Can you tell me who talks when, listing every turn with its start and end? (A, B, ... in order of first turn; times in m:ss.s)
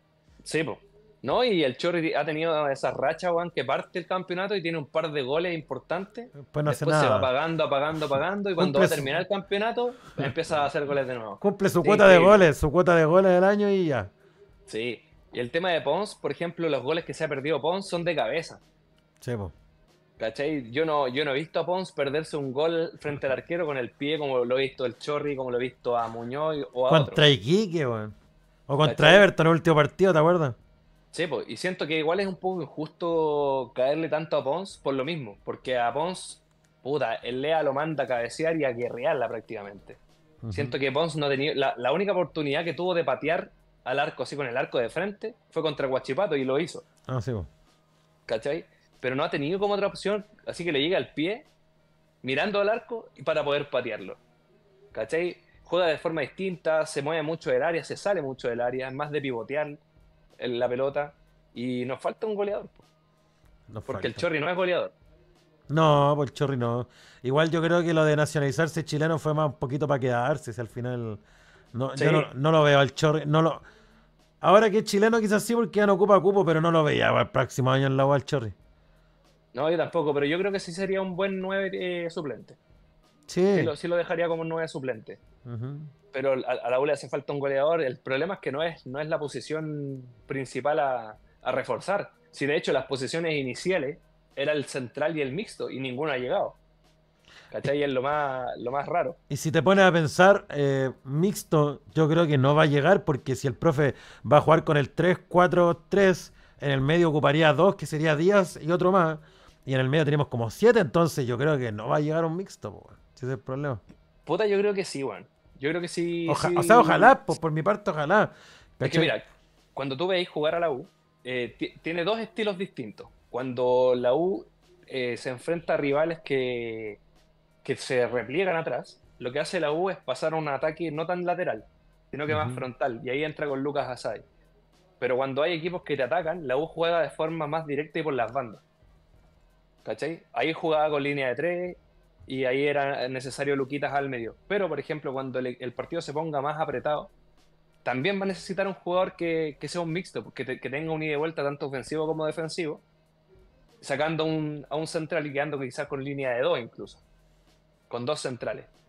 0:00.4-0:12.4 A
0:06.4-0:07.3 B
0:08.6-0:09.2 B
0:11.4-0:14.1 B
0:14.7-0:18.6 A
0:19.2-0:19.5 B
0:20.2-0:27.2 A
0:26.9-0:28.1 B
0:28.7-0:30.6 B
0:28.8-0:29.2 A
0:31.1-0:40.0 A
0:40.4-0:40.7 B
0:40.5-0:46.8 A
0:47.1-0:47.5 B
0:48.3-0:51.5 A
0:52.2-0:54.2 A
0:54.9-0:59.8 A
1:00.4-1:02.8 A
1:03.7-1:04.3 B
1:03.8-1:04.9 A
1:05.7-1:11.2 B
1:11.7-1:13.6 B
1:12.0-1:12.3 A
1:14.4-1:18.5 B
1:19.5-1:22.6 A
1:23.3-1:23.7 B
1:23.5-1:25.2 A
1:25.4-1:25.9 B
1:26.1-1:36.6 A
1:37.5-1:39.2 A
1:39.3-1:53.8 B
1:54.2-1:57.3 A
1:56.3-1:59.1 B
1:58.8-1:59.2 A
1:59.7-2:07.0 A
2:07.6-2:14.2 A
2:12.3-2:12.6 B
2:15.0-2:18.6 A
2:19.8-2:27.1 A
2:27.8-2:32.8 A
2:33.8-2:37.0 A
2:37.9-2:38.7 A